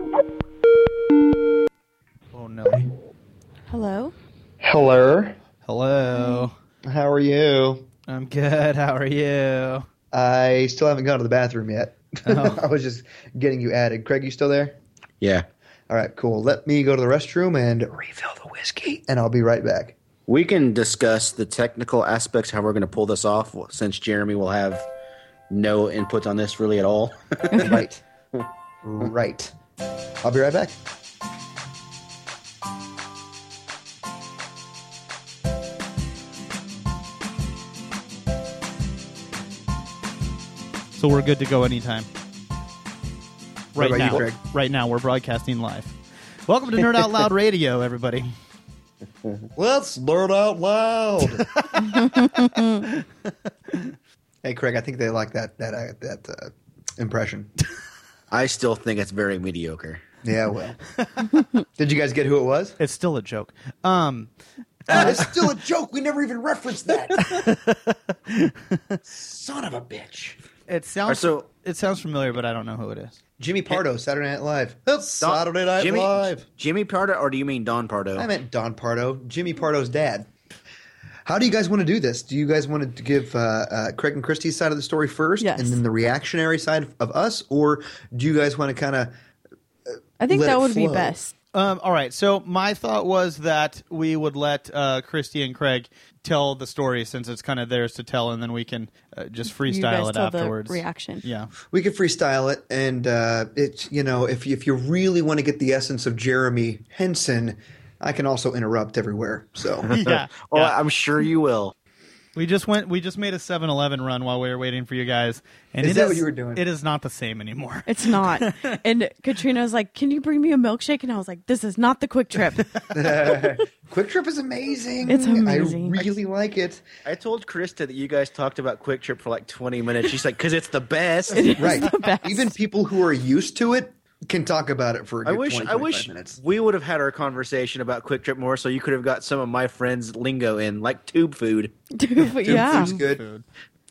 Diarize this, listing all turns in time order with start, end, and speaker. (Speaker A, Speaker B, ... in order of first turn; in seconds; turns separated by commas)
Speaker A: 2.3-2.9, Speaker B: 3.7-4.1, Speaker C: 4.6-5.4, Speaker A: 5.7-6.5, Speaker C: 6.9-7.8, Speaker A: 8.1-9.8, Speaker C: 10.1-14.8, Speaker A: 12.3-12.6, Speaker D: 15.2-15.4, Speaker C: 15.9-19.9, Speaker D: 20.3-24.9, Speaker D: 25.5-27.6, Speaker B: 27.5-27.8, Speaker C: 27.5-28.0, Speaker C: 28.8-29.5, Speaker C: 30.2-30.8, Speaker A: 41.0-42.1, Speaker A: 43.7-46.0, Speaker C: 43.8-44.4, Speaker D: 43.9-44.2, Speaker A: 46.5-48.3, Speaker C: 49.5-51.5, Speaker A: 51.3-53.0, Speaker B: 51.8-52.9, Speaker C: 54.4-57.5, Speaker D: 58.3-60.0, Speaker C: 60.2-60.8, Speaker A: 61.0-61.4, Speaker C: 61.8-62.8, Speaker A: 62.8-64.3, Speaker A: 64.8-65.5, Speaker C: 64.9-67.5, Speaker A: 67.2-69.0, Speaker C: 69.1-70.4, Speaker A: 70.7-73.2, Speaker D: 71.1-71.5, Speaker C: 73.4-76.4, Speaker D: 75.2-78.3, Speaker C: 78.2-80.3, Speaker C: 81.3-89.1, Speaker B: 85.4-85.8, Speaker C: 89.9-91.2, Speaker B: 90.2-91.3, Speaker A: 91.5-101.5, Speaker B: 99.5-101.2, Speaker C: 101.7-109.9, Speaker D: 109.9-111.7, Speaker A: 109.9-110.8, Speaker A: 112.3-118.8, Speaker C: 115.8-116.6, Speaker B: 117.9-122.7, Speaker C: 122.9-126.8, Speaker B: 125.1-126.0, Speaker D: 127.0-131.6, Speaker B: 131.3-132.5, Speaker C: 131.5-136.4, Speaker D: 135.2-141.7, Speaker B: 141.9-142.9, Speaker A: 142.3-143.4, Speaker C: 142.4-143.2